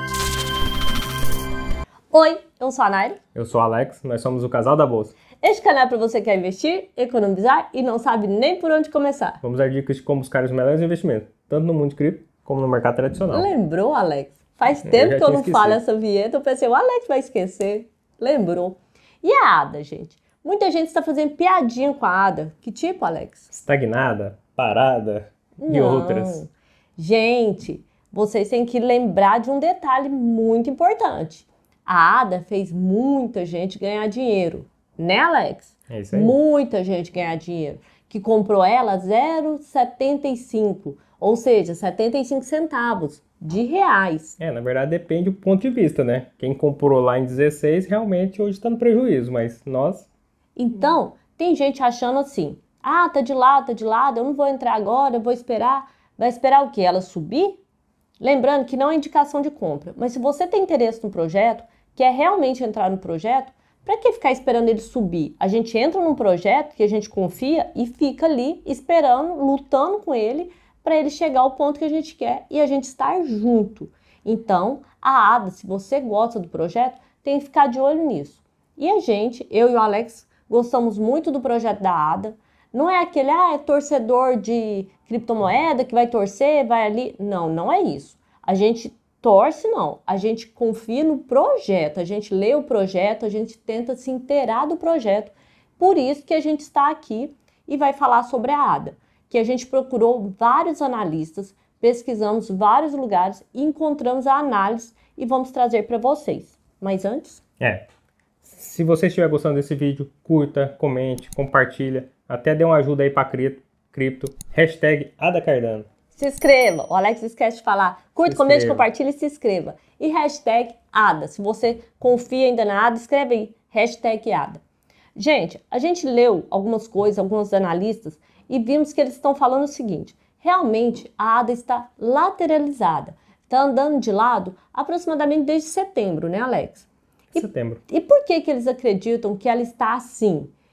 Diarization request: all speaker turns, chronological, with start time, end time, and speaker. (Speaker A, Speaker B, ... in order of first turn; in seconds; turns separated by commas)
Speaker A: 2.1-3.2, Speaker B: 3.3-5.1, Speaker A: 5.4-9.4, Speaker B: 9.4-13.5, Speaker A: 13.3-23.4, Speaker B: 14.8-15.8, Speaker B: 23.5-26.4, Speaker A: 25.6-44.4, Speaker B: 35.9-36.4, Speaker B: 44.4-50.1, Speaker A: 50.5-57.6, Speaker A: 58.2-107.4, Speaker B: 107.6-107.8, Speaker B: 108.4-115.9, Speaker A: 116.1-124.6, Speaker B: 118.2-118.8, Speaker A: 125.2-140.5, Speaker B: 137.3-137.8